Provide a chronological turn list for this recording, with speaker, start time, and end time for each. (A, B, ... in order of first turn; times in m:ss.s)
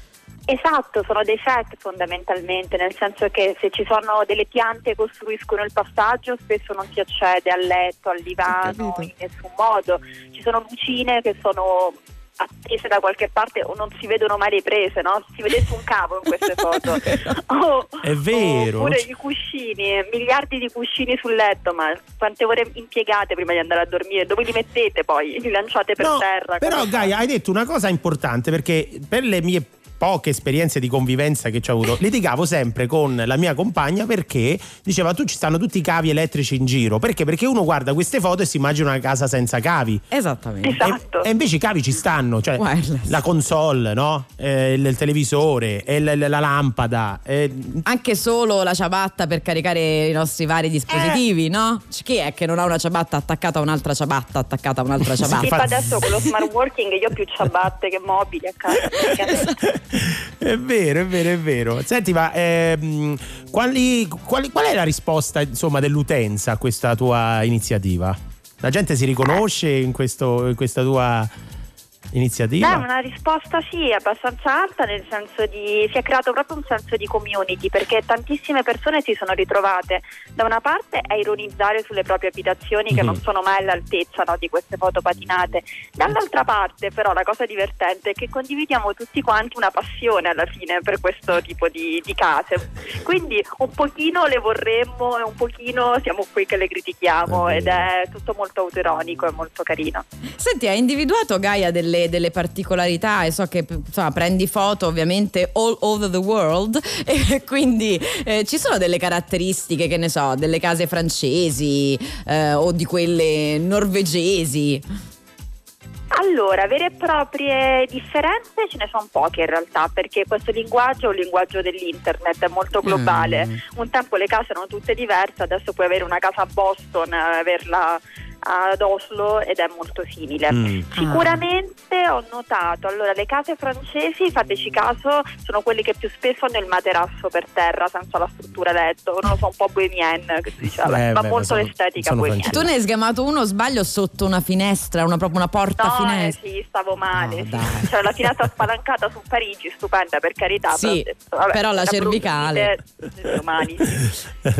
0:00.5-0:27.1 A
0:08.6-0:09.0 B
0:18.0-0:19.0 C
0:26.0-0:40.0 C
0:40.1-0:40.8 B
0:40.6-0:41.2 A
0:40.8-0:47.8 C
0:42.6-0:43.2 B
0:47.8-0:55.6 B
0:50.9-0:51.2 C
0:55.1-0:56.4 C
0:55.4-0:59.5 A
0:59.0-0:59.5 B
0:59.0-1:11.3 C
1:12.1-1:12.8 C
1:12.6-1:40.0 A
1:22.9-1:23.2 C
1:37.2-1:37.9 C
1:40.4-1:54.8 B
1:56.1-2:22.6 A
2:02.8-2:03.6 B
2:10.5-2:10.9 C
2:11.0-2:11.3 B
2:20.8-2:22.7 C
2:22.5-2:26.4 B
2:25.8-2:34.1 A
2:27.1-2:27.9 B
2:30.7-2:32.7 B